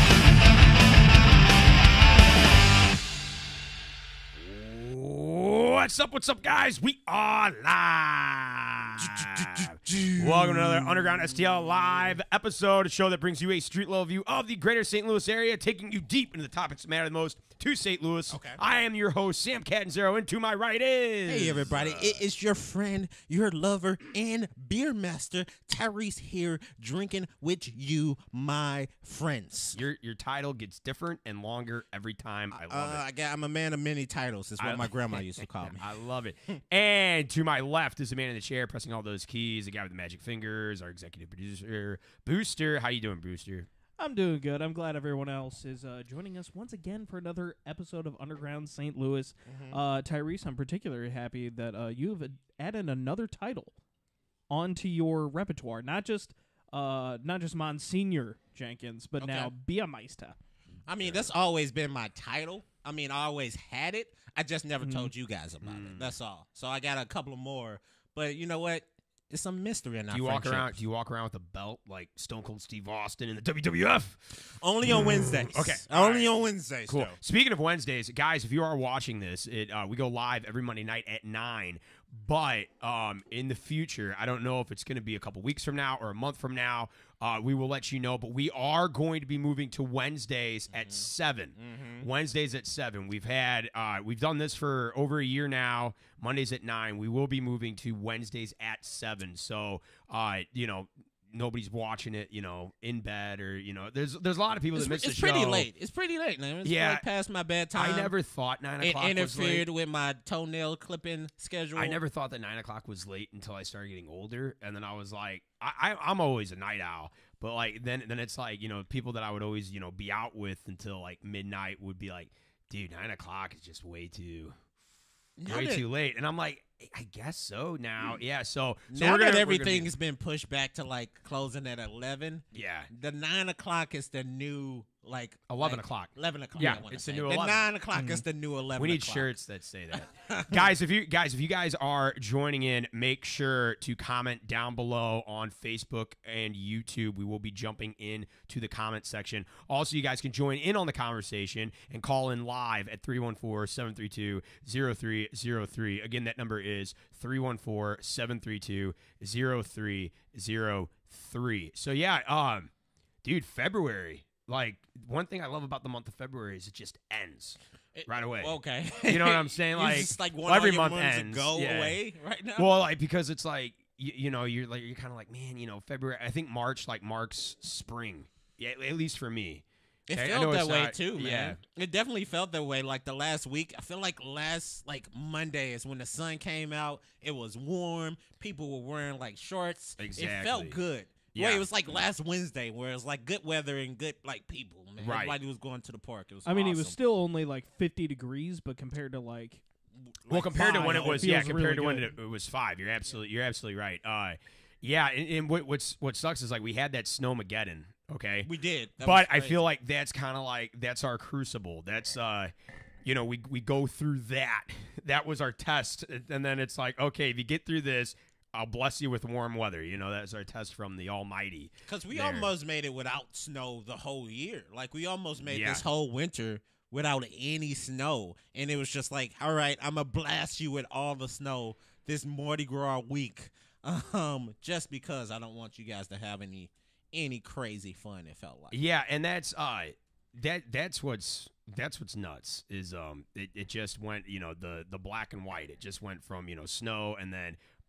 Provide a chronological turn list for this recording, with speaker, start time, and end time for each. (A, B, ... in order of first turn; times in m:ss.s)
0:04.4-0:22.2 A
0:09.0-0:12.2 B
0:18.3-0:18.6 B
0:21.3-0:29.8 B
0:29.7-0:33.0 A
0:32.5-0:35.9 B
0:34.6-0:43.7 A
0:44.0-0:53.7 C
0:49.5-0:49.8 B
0:54.5-1:00.4 C
0:59.2-0:59.5 B
1:00.9-1:10.7 B
1:01.0-1:01.3 A
1:04.8-1:05.1 C
1:05.6-1:06.2 A
1:10.1-1:14.4 A
1:14.5-1:17.2 B
1:15.4-1:16.3 A
1:16.9-1:45.7 A
1:30.7-1:32.1 B
1:44.7-1:48.1 B
1:46.6-1:47.0 A
1:47.8-1:49.7 A
1:48.8-1:52.0 B
1:51.8-2:04.6 A
2:05.4-2:05.9 B
2:05.5-2:09.9 A
2:08.9-2:19.3 B
2:12.5-2:12.9 A
2:15.5-2:17.7 A
2:17.9-2:18.2 C
2:18.8-2:42.7 A
2:19.9-2:20.7 B
2:43.2-2:52.0 A
2:48.0-2:52.8 B
2:52.6-3:01.6 A
3:00.1-3:17.0 B
3:10.0-3:10.8 A
3:11.3-3:12.0 A
3:15.0-3:15.4 A
3:16.5-3:19.6 C
3:20.2-3:21.4 B
3:20.3-3:32.5 A
3:20.6-3:22.1 C
3:28.4-3:29.6 B
3:33.0-3:42.5 A
3:41.9-3:58.8 B
3:45.4-3:45.8 A
3:58.7-4:07.6 A